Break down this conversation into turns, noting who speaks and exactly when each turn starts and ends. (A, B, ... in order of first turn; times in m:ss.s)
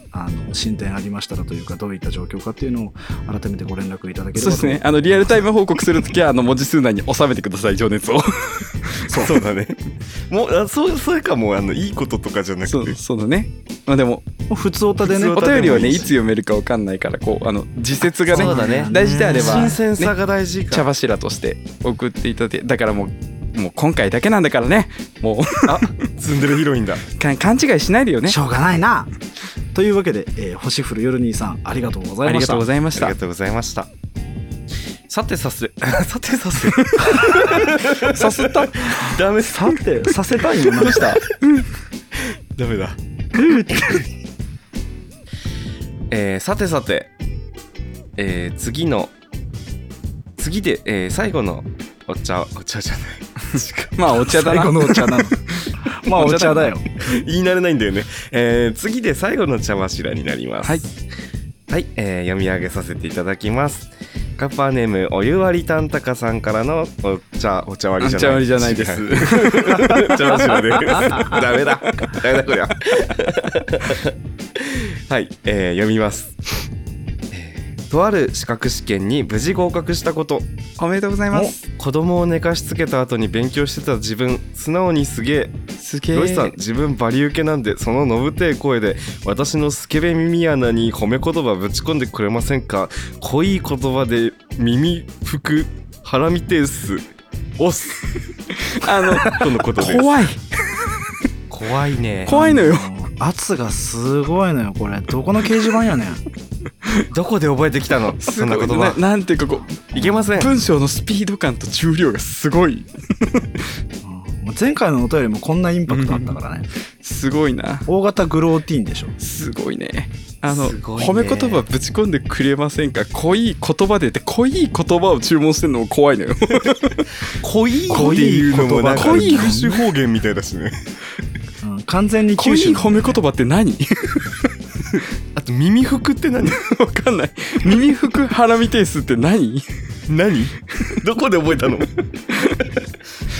0:00.1-0:04.8 A
0:04.4-0:09.3 B
0:09.1-0:09.3 A
0:09.2-0:13.0 C
0:12.7-0:14.2 B
0:14.5-0:16.1 A
0:15.0-0:16.1 C
0:15.3-0:20.1 B
0:18.3-0:20.9 C
0:18.3-0:19.8 A
0:20.7-0:26.0 B
0:25.6-0:27.1 C
0:27.2-0:28.4 B
0:28.3-0:29.1 A
0:29.7-0:32.7 A
0:32.2-0:33.2 B
0:32.9-0:33.9 C
0:35.1-0:39.8 C
0:36.7-0:37.4 B
0:37.1-0:37.5 A
0:38.0-0:38.9 B
0:38.8-0:41.2 A
0:40.8-0:41.6 B
0:40.8-0:41.2 C
0:42.6-0:43.0 C
0:43.4-0:44.0 A
0:46.1-0:47.1 C
0:48.2-0:49.1 C
0:50.4-0:53.9 C
0:54.0-0:55.4 B
0:54.2-0:56.8 A
0:56.1-0:56.7 B
0:57.0-1:01.0 C
1:01.7-1:16.4 C
1:08.0-1:11.4 B
1:17.3-1:20.5 C
1:20.8-1:21.6 B
1:21.7-1:25.6 C
1:25.8-1:26.5 B
1:26.1-1:37.1 C
1:37.6-1:38.1 C
1:38.7-1:40.9 B
1:39.1-1:40.1 C
1:41.5-1:42.3 C
1:42.2-1:42.9 B
1:42.3-1:46.2 A
1:47.1-1:49.0 C
1:48.2-1:49.8 B
1:49.9-1:50.3 A
1:49.9-1:50.6 C
1:50.4-1:53.6 B
1:54.0-1:56.7 A
1:55.9-1:56.4 B
1:57.0-1:57.9 B
1:57.9-1:59.2 A
1:59.2-2:07.2 B
2:00.4-2:01.7 C
2:07.4-2:10.8 C
2:07.9-2:09.8 A
2:07.9-2:09.8 B
2:11.6-2:13.2 A
2:12.4-2:14.5 B
2:15.3-2:16.6 C
2:16.5-2:19.6 B
2:20.1-2:21.9 C
2:22.4-2:22.7 B